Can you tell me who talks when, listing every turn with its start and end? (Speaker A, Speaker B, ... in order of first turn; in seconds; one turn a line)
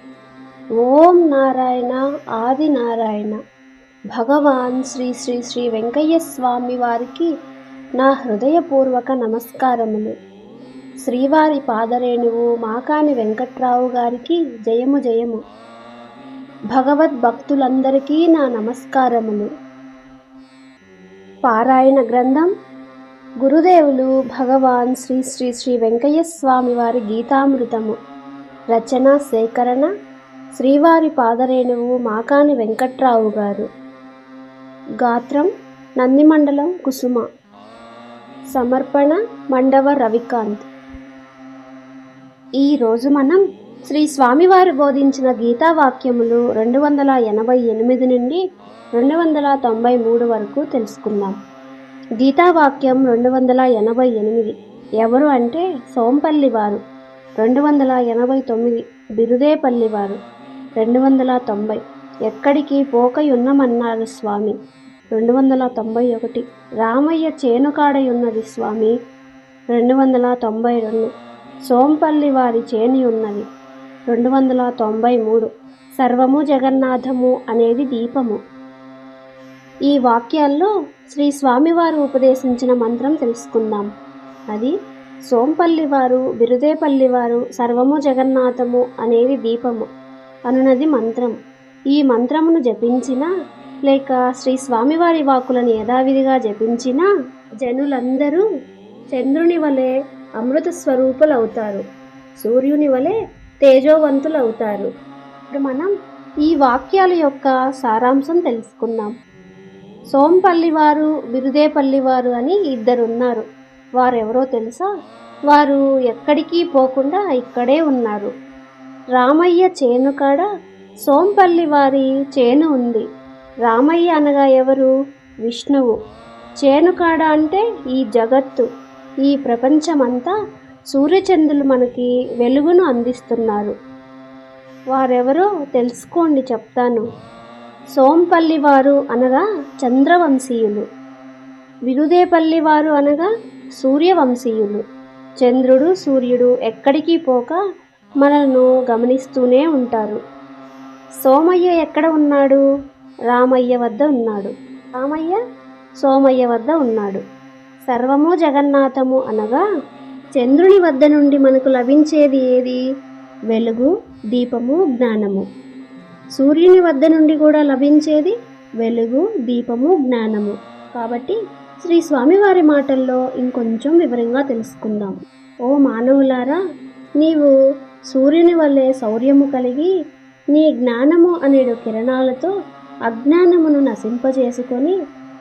Speaker A: 0.8-3.4
Speaker A: 4.1-7.3
Speaker A: 8.0-10.1
Speaker A: 11.0-15.4
Speaker A: 16.7-19.5
Speaker A: 21.4-22.5
Speaker A: 23.4-27.9
Speaker A: 28.7-29.9
Speaker A: 30.6-33.7
Speaker A: 35.0-37.2
Speaker A: 38.5-40.7
Speaker A: 42.6-48.4
Speaker A: 49.0-51.4
Speaker A: 52.2-56.8
Speaker A: 57.4-60.2
Speaker A: 60.8-64.5
Speaker A: 65.1-68.9
Speaker A: 69.7-71.1
Speaker A: 71.7-73.5
Speaker A: 74.1-78.4
Speaker A: 79.9-83.9
Speaker A: 85.3-89.9
Speaker A: 90.5-91.3
Speaker A: 91.9-93.3
Speaker A: 93.8-97.1
Speaker A: 97.6-98.4
Speaker A: 99.1-101.8
Speaker A: 102.4-104.9
Speaker A: 105.5-105.9
Speaker A: 106.4-109.1
Speaker A: 110.1-113.4
Speaker A: 114.0-114.9
Speaker A: 115.5-118.3
Speaker A: 119.2-120.5
Speaker A: 121.0-123.0
Speaker A: 123.7-124.9
Speaker A: 125.4-126.0
Speaker A: 126.6-128.7
Speaker A: 129.2-130.3
Speaker A: 130.9-133.7
Speaker A: 134.9-137.0
Speaker A: 137.9-140.8
Speaker A: 141.9-144.8
Speaker A: 145.4-147.6
Speaker A: 148.2-150.2
Speaker A: 151.2-152.6
Speaker A: 153.3-155.4
Speaker A: 156.0-157.2
Speaker A: 157.9-159.6
Speaker A: 160.3-162.8
Speaker A: 163.5-165.4
Speaker A: 166.3-176.6
Speaker A: 177.2-177.5
Speaker A: 178.1-179.9
Speaker A: 180.5-182.5
Speaker A: 183.1-184.9